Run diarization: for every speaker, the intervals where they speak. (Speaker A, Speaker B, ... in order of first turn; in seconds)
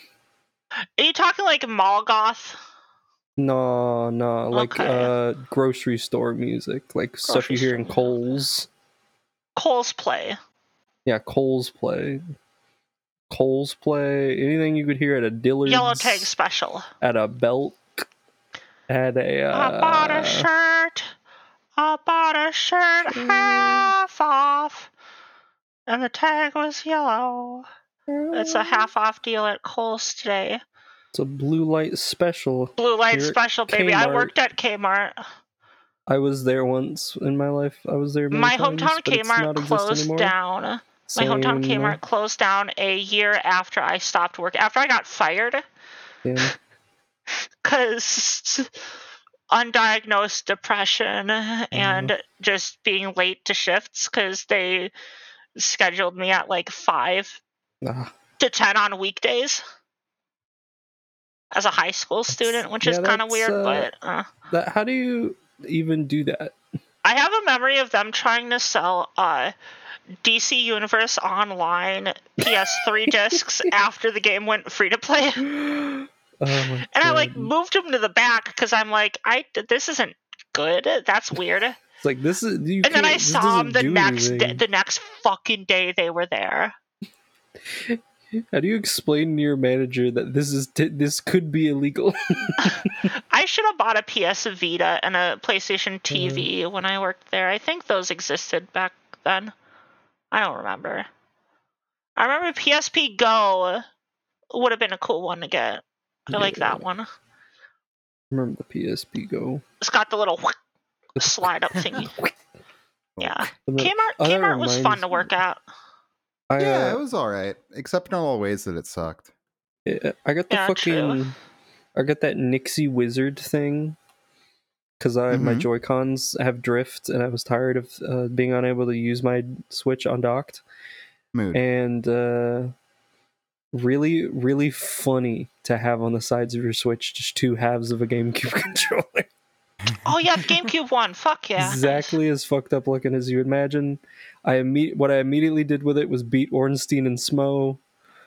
Speaker A: 1.0-2.6, 4.5-5.1, 7.2-8.1, 9.6-10.4, 15.7-16.9, 19.5-21.1, 21.8-24.9, 25.9-27.6, 28.3-30.6, 32.8-35.2, 38.3-45.6, 47.6-48.7, 49.5-54.9, 55.5-57.4, 58.4-59.6, 61.5-64.3, 67.0-69.5, 70.2-75.5, 76.9-81.8, 82.8-86.7, 93.3-99.5, 100.3-101.1, 102.2-103.8, 104.5-107.1, 109.8-110.5, 111.2-112.1, 113.2-115.6, 120.5-121.2, 140.0-142.2
Speaker B: 3.4-8.7, 11.1-12.2, 13.3-16.3, 17.0-18.0, 18.9-20.5, 23.0-23.9, 28.1-28.9, 31.1-34.3, 36.1-40.3, 41.1-42.0, 46.2-46.5, 51.7-52.1, 57.8-58.1, 62.4-63.9, 64.5-66.5, 75.5-77.5, 82.0-84.6, 87.7-92.8, 96.1-96.5, 106.3-106.8, 108.3-109.6, 111.2-112.3, 113.7-115.3, 116.5-117.0, 119.8-121.3, 121.9-124.0, 125.0-130.6, 131.5-132.7, 133.7-139.3, 141.6-147.8
Speaker C: 113.2-113.4, 116.6-119.3, 125.3-125.7, 131.3-131.6